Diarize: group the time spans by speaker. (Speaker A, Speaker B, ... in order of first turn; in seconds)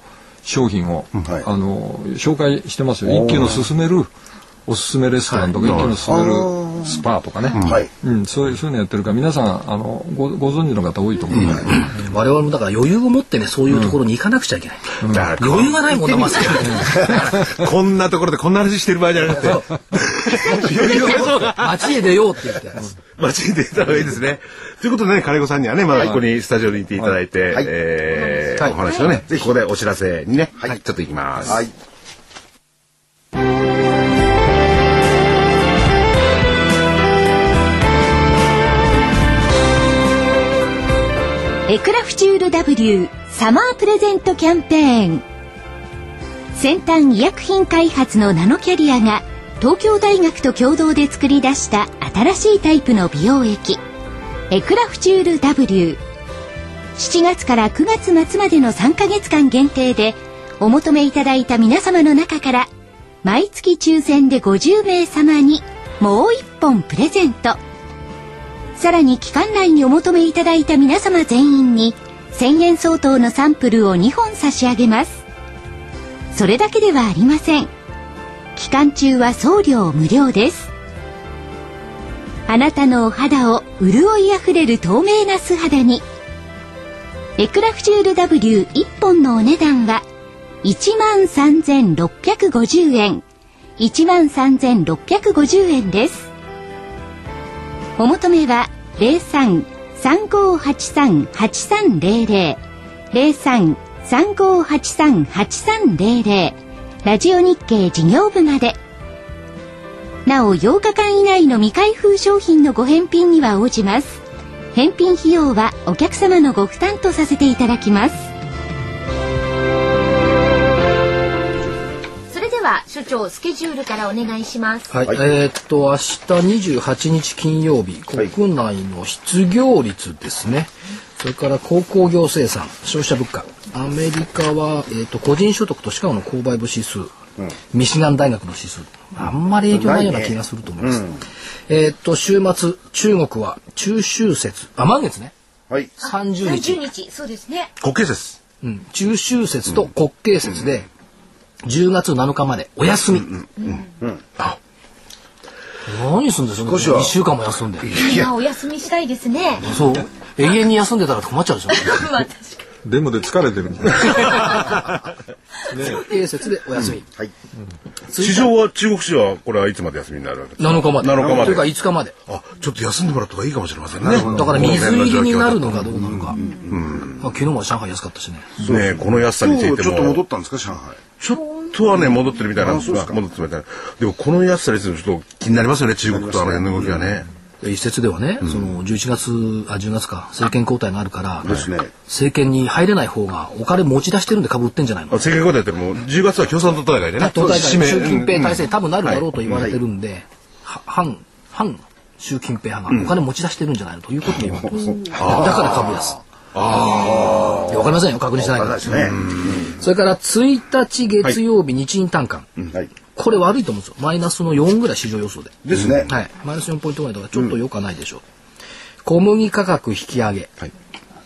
Speaker A: 0.4-4.1, 4.7-11.8, 162.8-164.8, 165.7-166.0
Speaker B: 3.0-3.6, 5.8-7.0, 7.5-7.9, 11.3-11.6, 31.4-31.7, 139.7-141.2, 156.6-157.2, 157.8-158.3, 171.2-171.6, 173.9-174.8, 176.1-177.0, 178.6-181.0, 182.6-183.2, 186.1-187.0, 191.4-191.9, 204.6-206.1, 206.9-209.8, 215.6-216.1
Speaker C: 5.6-6.0, 7.5-7.8, 11.3-11.7, 15.0-21.9, 23.2-31.6, 147.8-148.4, 168.2-171.7, 172.2-176.0, 176.7-177.2, 178.6-180.2, 181.2-187.3, 195.1-199.2, 205.1-205.8, 206.5-207.7, 209.0-209.5
Speaker D: 11.7-17.3, 20.4-22.9, 124.9-137.1, 137.7-141.1, 141.7-145.3, 146.0-146.8, 148.6-150.9, 151.6-153.3, 155.9-157.9, 159.6-161.9, 165.8-167.0, 168.1-168.5, 170.6-172.1, 174.2-176.4, 177.2-178.6, 187.6-191.5, 192.1-195.3, 197.2-209.0, 209.7-212.5, 213.1-215.6, 216.1-218.2, 219.0-220.5
Speaker E: 28.3-29.1, 146.0-147.7, 153.6-153.8, 157.9-159.7, 161.7-162.7, 164.2-164.6, 165.7-166.1, 181.4-181.9
Speaker F: 41.7-45.2, 46.5-53.8, 54.5-56.0, 57.0-62.7, 63.2-67.6, 68.8-75.2, 76.3-77.7, 78.5-80.7, 82.5-86.0, 87.4-90.0, 90.6-93.2, 93.8-96.3, 98.0-102.6, 103.1-108.8, 110.2-114.2, 114.7-118.3, 122.3-124.9